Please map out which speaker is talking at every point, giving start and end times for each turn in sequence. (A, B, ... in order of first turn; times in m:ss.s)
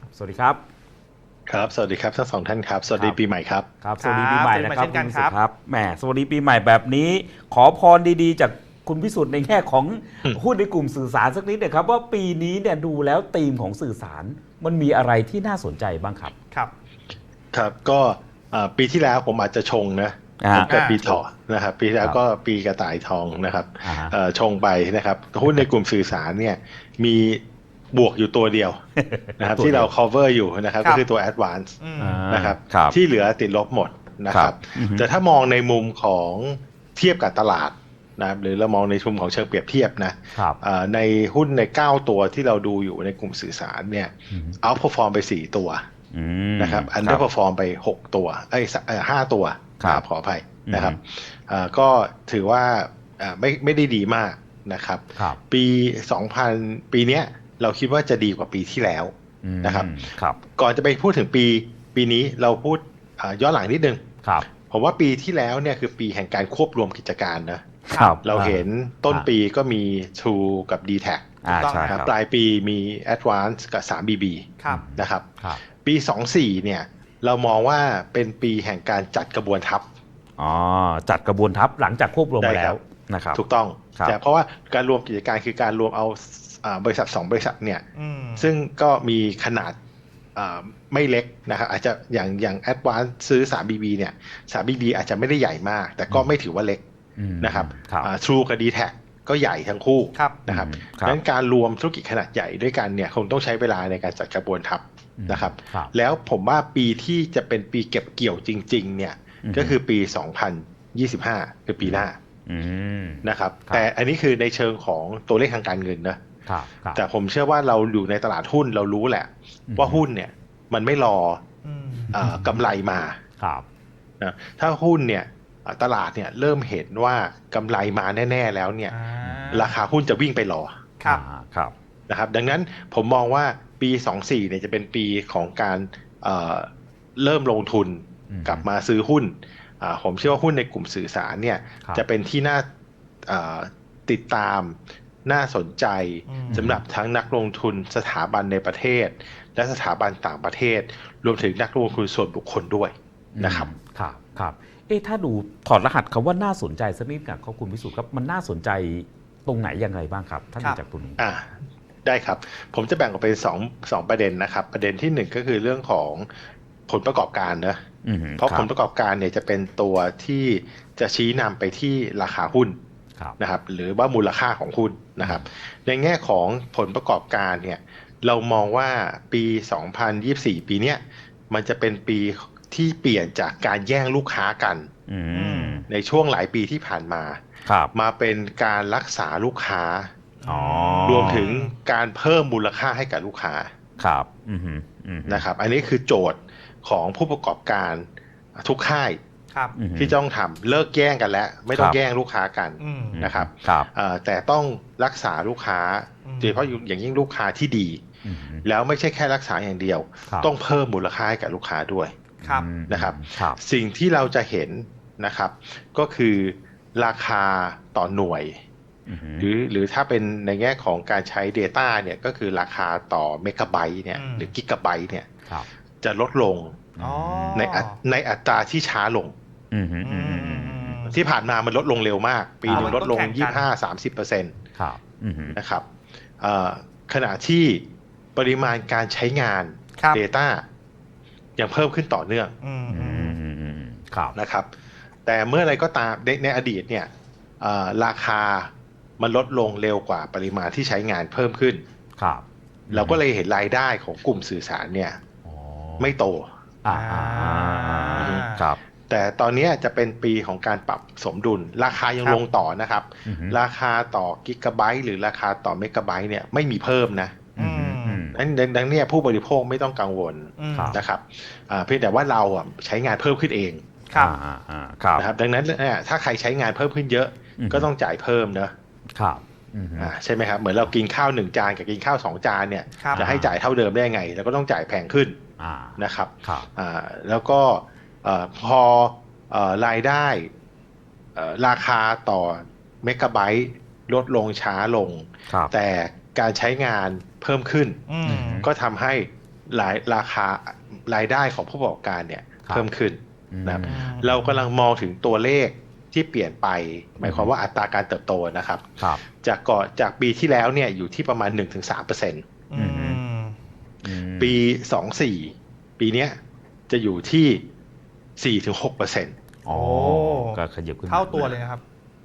0:00.1-0:00.6 A
0:01.5-0:03.7 B
0:02.9-0:03.2 A
0:03.8-0:16.3 A
0:04.0-0:05.3 C
0:17.5-0:28.8 B
0:20.4-0:21.1 A
0:20.6-0:21.0 C
0:23.8-0:24.1 A
0:29.0-0:29.9 A
0:29.4-0:31.8 B
0:31.8-0:32.2 C
0:32.0-0:32.9 A
0:32.3-0:45.8 B
0:34.3-0:35.0 A
0:40.3-0:40.6 A
0:44.3-0:44.6 A
0:46.1-0:47.2 A
0:46.6-0:59.9 B
0:50.7-0:51.0 A
0:59.4-1:00.4 A
1:00.5-1:11.3 B
1:07.9-1:08.2 C
1:07.9-1:09.3 A
1:11.4-1:12.1 A
1:11.5-1:12.0 C
1:11.9-1:19.8 B
1:14.6-1:14.8 C
1:14.7-1:15.6 A
1:20.4-1:23.4 A
1:22.4-1:22.8 B
1:23.3-1:27.8 B
1:27.9-1:28.5 C
1:28.4-1:29.8 B
1:30.3-1:36.8 B
1:36.1-1:36.3 A
1:37.2-1:38.1 A
1:37.4-1:52.2 B
1:40.1-1:40.4 C
1:40.5-1:41.2 A
1:45.2-1:45.9 A
1:49.4-1:49.8 A
1:51.8-1:53.8 A
1:53.2-1:56.2 B
1:56.5-1:57.0 A
1:56.9-2:01.4 B
1:59.7-2:00.0 A
2:01.6-2:02.1 C
2:02.1-2:02.6 A
2:02.1-2:03.2 B
2:03.4-2:03.6 A
2:04.2-2:08.9 B
2:08.9-2:09.7 C
2:09.2-2:09.7 A
2:09.5-2:10.8 B
2:11.0-2:11.7 A
2:12.1-2:22.6 B
2:18.3-2:18.6 A
2:23.2-2:33.7 B
2:26.3-2:26.7 C
2:26.5-2:26.8 A
2:33.3-2:41.2 A
2:41.2-2:46.3 B
2:46.9-2:47.8 B
2:48.0-2:48.7 A
2:48.4-2:52.8 B
2:53.4-3:04.9 B
2:55.2-2:55.5 A
3:05.1-3:05.8 A
3:05.3-3:05.8 C
3:05.9-3:07.4 B
3:07.6-3:07.9 A
3:07.9-3:10.1 B
3:10.4-3:11.7 C
3:10.4-3:11.4 A
3:11.0-3:13.7 B
3:14.0-3:15.5 A
3:15.3-3:19.2 B
3:19.7-3:20.2 A
3:19.9-3:28.0 B
3:21.7-3:22.0 A
3:22.8-3:23.2 C
3:23.1-3:23.9 A
3:26.2-3:26.8 C
3:28.2-3:28.6 A
3:28.6-3:32.2 B
3:32.4-3:32.7 C
3:32.4-3:33.6 A
3:32.9-3:38.6 B
3:39.1-3:39.5 A
3:39.4-3:45.3 B
3:44.1-3:44.5 C
3:46.0-3:46.8 B
3:47.0-3:47.6 A
3:47.0-3:48.0 C
3:47.5-3:49.3 B
3:49.7-3:51.0 A
3:50.0-3:51.2 C
3:51.1-3:54.6 B
3:52.6-3:53.0 A
3:52.7-3:53.7 C
3:54.7-3:55.6 A
3:55.5-3:55.8 B
3:56.4-3:57.8 B
3:58.4-4:00.6 B
4:01.6-4:02.5 B
4:02.6-4:03.4 C
4:02.9-4:04.3 A
4:04.3-4:04.7 B
4:05.2-4:11.8 B
4:12.2-4:13.2 A
4:12.9-4:15.2 B
4:15.4-4:16.1 A
4:16.0-4:16.5 B
4:16.8-4:18.8 A
4:16.9-4:18.7 C
4:18.2-4:18.5 B
4:19.1-4:27.4 B
4:23.2-4:23.6 A
4:27.6-4:28.4 A
4:27.6-4:28.2 C
4:28.3-4:33.8 B
4:30.6-4:31.0 C
4:30.7-4:31.0 A
4:34.1-4:35.3 A
4:35.2-4:38.7 B
4:37.6-4:37.9 A
4:39.1-4:40.1 A
4:40.0-4:45.4 B
4:43.0-4:43.2 C
4:43.1-4:43.6 A
4:45.6-4:46.7 A
4:46.0-4:50.5 B
4:51.4-5:12.4 B
4:58.1-4:58.6 C
4:58.2-4:58.7 A
5:03.5-5:04.2 A
5:03.8-5:04.7 C
5:07.2-5:07.5 A
5:12.7-5:13.6 C
5:12.7-5:13.2 A
5:14.0-5:14.6 A
5:14.4-5:16.4 B
5:16.9-5:17.6 B
5:18.4-5:19.3 B
5:19.6-5:21.5 A
5:19.7-5:21.8 C